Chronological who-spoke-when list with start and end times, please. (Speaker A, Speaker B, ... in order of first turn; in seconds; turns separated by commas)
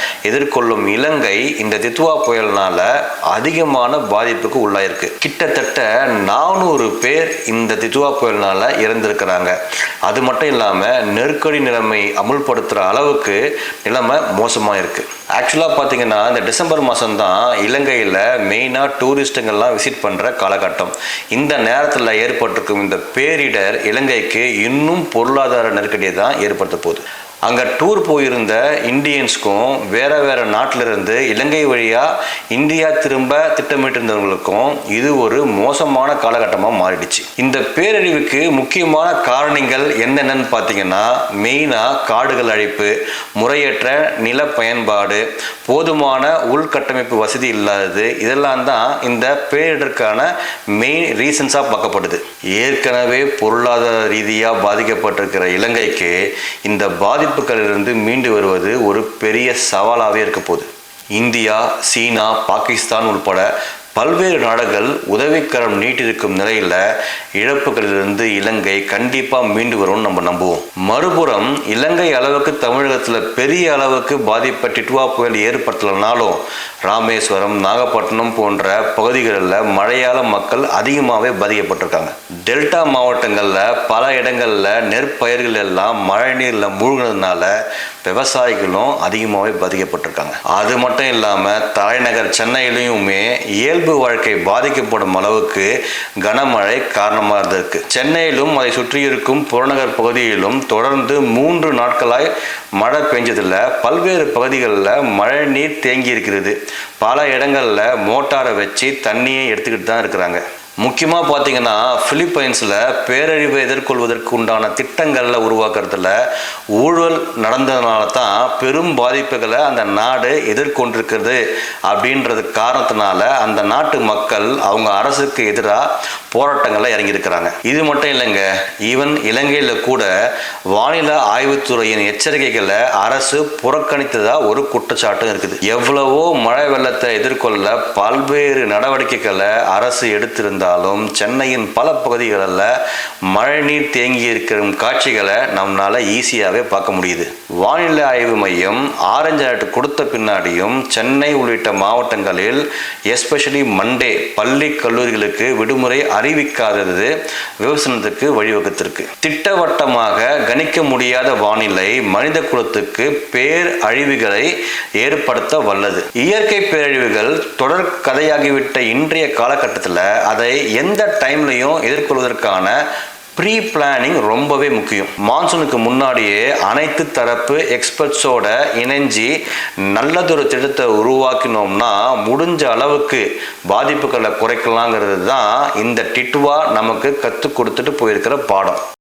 Speaker A: 0.3-66.8, Speaker A: 67.4-87.5, Speaker A: 88.0-95.7, Speaker A: 96.2-116.1, Speaker A: 116.8-130.1, Speaker A: 130.7-142.7, Speaker A: 143.3-172.8, Speaker A: 173.3-179.3, Speaker A: 179.9-188.8